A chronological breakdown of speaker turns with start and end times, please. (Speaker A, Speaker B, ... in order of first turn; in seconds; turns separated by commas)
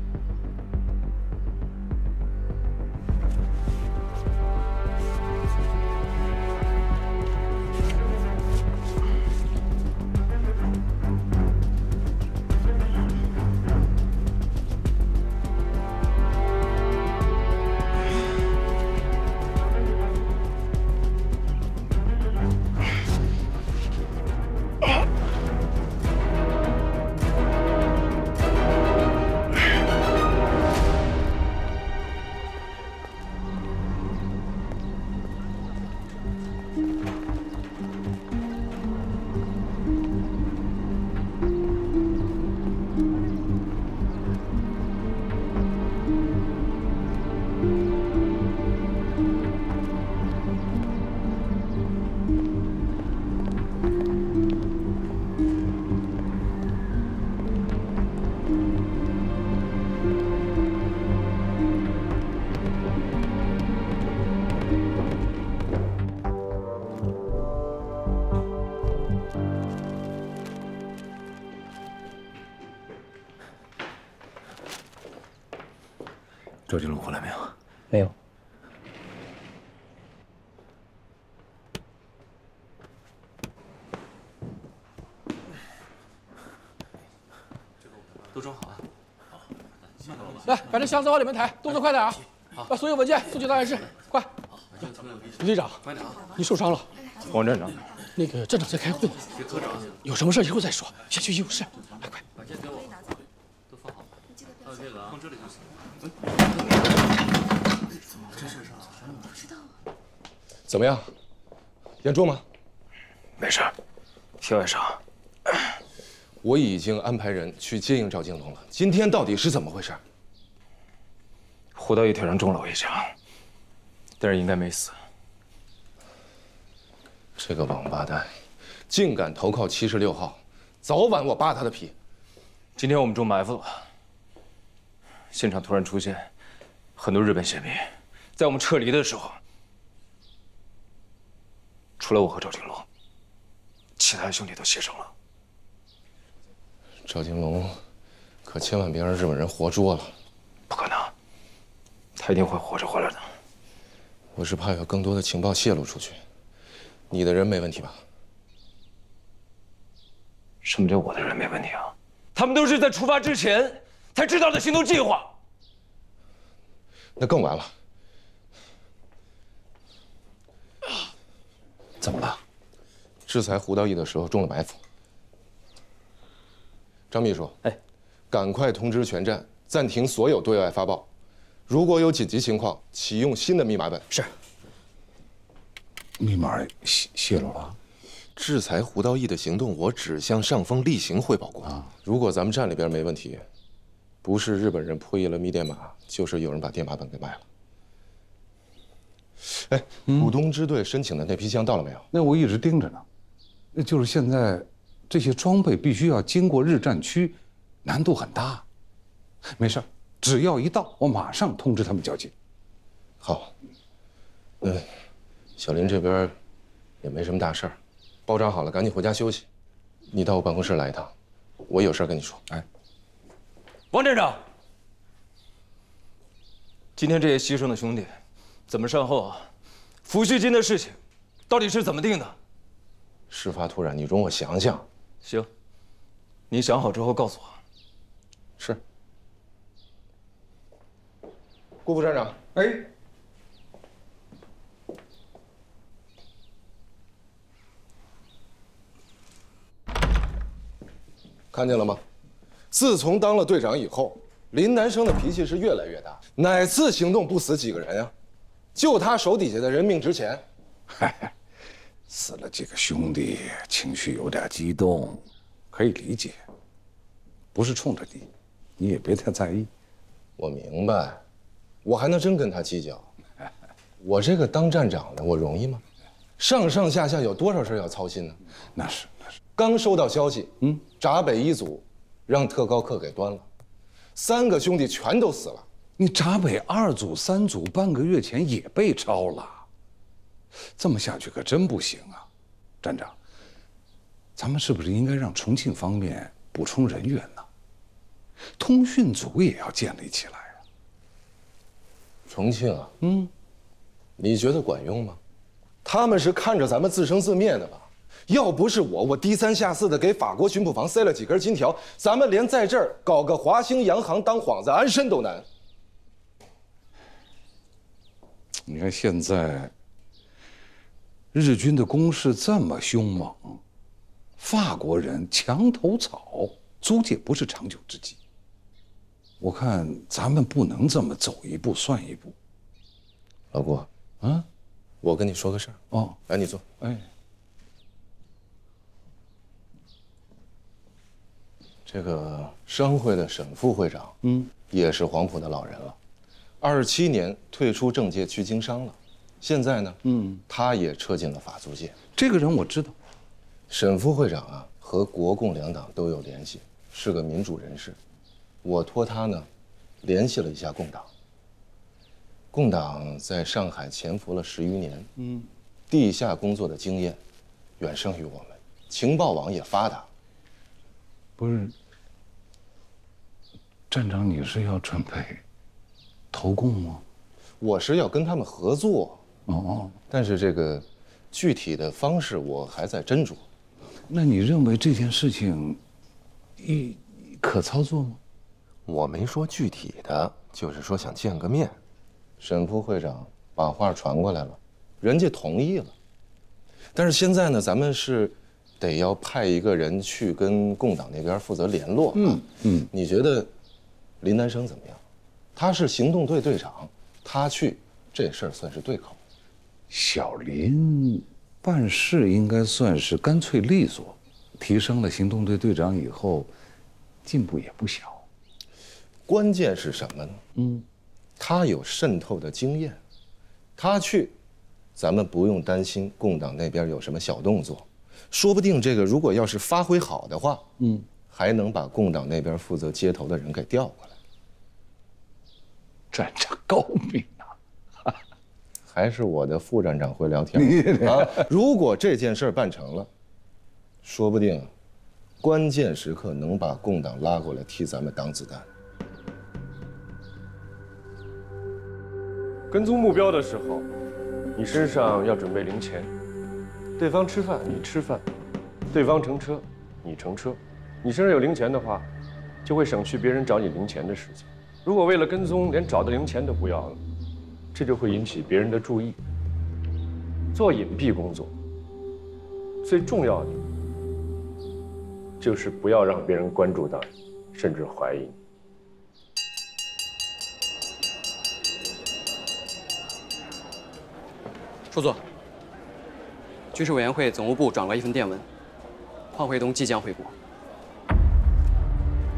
Speaker A: 76.7-77.5, Speaker B: 90.5-94.3, Speaker B: 95.4-96.9, Speaker A: 97.3-97.8, Speaker B: 98.2-99.3, Speaker B: 100.0-102.2, Speaker C: 110.7-111.1, Speaker C: 112.0-112.4, Speaker A: 113.4-113.7, Speaker A: 114.4-115.0, Speaker C: 116.4-120.0, Speaker A: 121.8-123.1, Speaker A: 124.2-125.0, Speaker C: 127.4-128.3, Speaker C: 128.9-131.9, Speaker A: 132.8-133.9, Speaker A: 135.3-136.3, Speaker A: 137.0-139.4, Speaker A: 142.0-142.9, Speaker A: 144.0-145.1, Speaker C: 147.1-147.8, Speaker C: 148.4-150.1, Speaker A: 150.7-151.1, Speaker A: 152.2-153.2, Speaker C: 154.3-156.2, Speaker C: 157.1-158.0, Speaker A: 160.6-161.9, Speaker A: 162.6-165.3, Speaker C: 167.2-167.7, Speaker D: 172.0-172.4, Speaker C: 173.3-174.8, Speaker C: 177.1-177.6, Speaker C: 178.3-181.1, Speaker C: 181.7-184.1, Speaker D: 186.2-187.8, Speaker C: 188.4-193.4, Speaker C: 194.2-197.4, Speaker C: 199.4-202.1, Speaker D: 202.1-203.1, Speaker D: 203.7-208.7, Speaker D: 209.5-212.3, Speaker C: 213.2-213.5, Speaker C: 214.6-215.0, Speaker C: 215.6-216.3, Speaker C: 217.0-219.5, Speaker C: 220.1-221.1, Speaker C: 221.7-222.5, Speaker A: 223.9-224.4, Speaker A: 227.0-229.5, Speaker A: 230.1-231.0, Speaker A: 231.5-232.4, Speaker C: 233.3-234.9, Speaker A: 236.5-237.6, Speaker C: 241.8-242.4, Speaker C: 251.5-252.0, Speaker C: 252.7-258.1, Speaker C: 258.8-260.4, Speaker D: 260.9-261.3, Speaker D: 262.1-266.4, Speaker D: 267.5-269.7, Speaker C: 270.4-271.2, Speaker C: 271.8-273.1, Speaker C: 274.0-275.8, Speaker C: 276.4-278.4, Speaker D: 278.8-279.4, Speaker C: 279.6-283.5, Speaker C: 284.1-285.7, Speaker D: 286.0-289.7, Speaker D: 290.8-292.3, Speaker D: 292.8-293.2, Speaker D: 294.4-297.5, Speaker D: 298.6-300.6, Speaker C: 302.3-302.9, Speaker D: 303.0-303.3, Speaker C: 304.2-305.2, Speaker C: 305.8-315.5, Speaker D: 318.7-319.7, Speaker D: 321.3-323.6, Speaker D: 324.4-328.2, Speaker D: 329.4-332.3, Speaker C: 333.5-333.9, Speaker C: 335.0-336.6, Speaker D: 335.9-336.2, Speaker D: 336.8-337.1, Speaker C: 341.9-344.2, Speaker D: 344.2-344.5, Speaker C: 344.7-346.0, Speaker C: 346.6-351.9, Speaker D: 350.1-350.4, Speaker D: 352.1-352.9, Speaker C: 353.7-358.0, Speaker C: 358.6-359.5, Speaker C: 360.0-361.1, Speaker C: 362.5-365.1, Speaker D: 365.2-365.5, Speaker C: 365.9-367.2, Speaker C: 367.8-370.1, Speaker D: 371.4-371.7, Speaker D: 373.9-375.4, Speaker D: 376.3-377.0, Speaker C: 377.6-379.2, Speaker D: 379.5-380.0, Speaker C: 380.1-383.5, Speaker D: 384.1-385.8, Speaker D: 386.6-388.2, Speaker C: 388.9-391.8, Speaker C: 392.4-395.9, Speaker C: 396.9-403.5, Speaker D: 402.1-402.9, Speaker C: 404.2-405.0, Speaker C: 405.6-409.2, Speaker D: 409.9-416.5, Speaker D: 417.2-418.2, Speaker C: 419.3-420.4, Speaker D: 420.6-420.9, Speaker C: 421.4-423.0, Speaker C: 423.8-424.4, Speaker C: 425.0-430.7, Speaker D: 430.8-431.1, Speaker C: 431.3-434.1, Speaker D: 436.1-437.5, Speaker C: 438.9-443.1, Speaker D: 440.6-441.4, Speaker C: 444.0-444.7, Speaker C: 445.4-448.7, Speaker E: 452.7-453.9, Speaker E: 454.6-456.1, Speaker E: 457.0-458.2, Speaker E: 458.9-462.1, Speaker E: 462.6-467.0, Speaker E: 467.7-469.2, Speaker E: 470.5-471.5, Speaker E: 472.8-473.6, Speaker E: 475.4-478.4, Speaker F: 484.9-485.2, Speaker F: 486.7-488.5, Speaker F: 489.3-490.4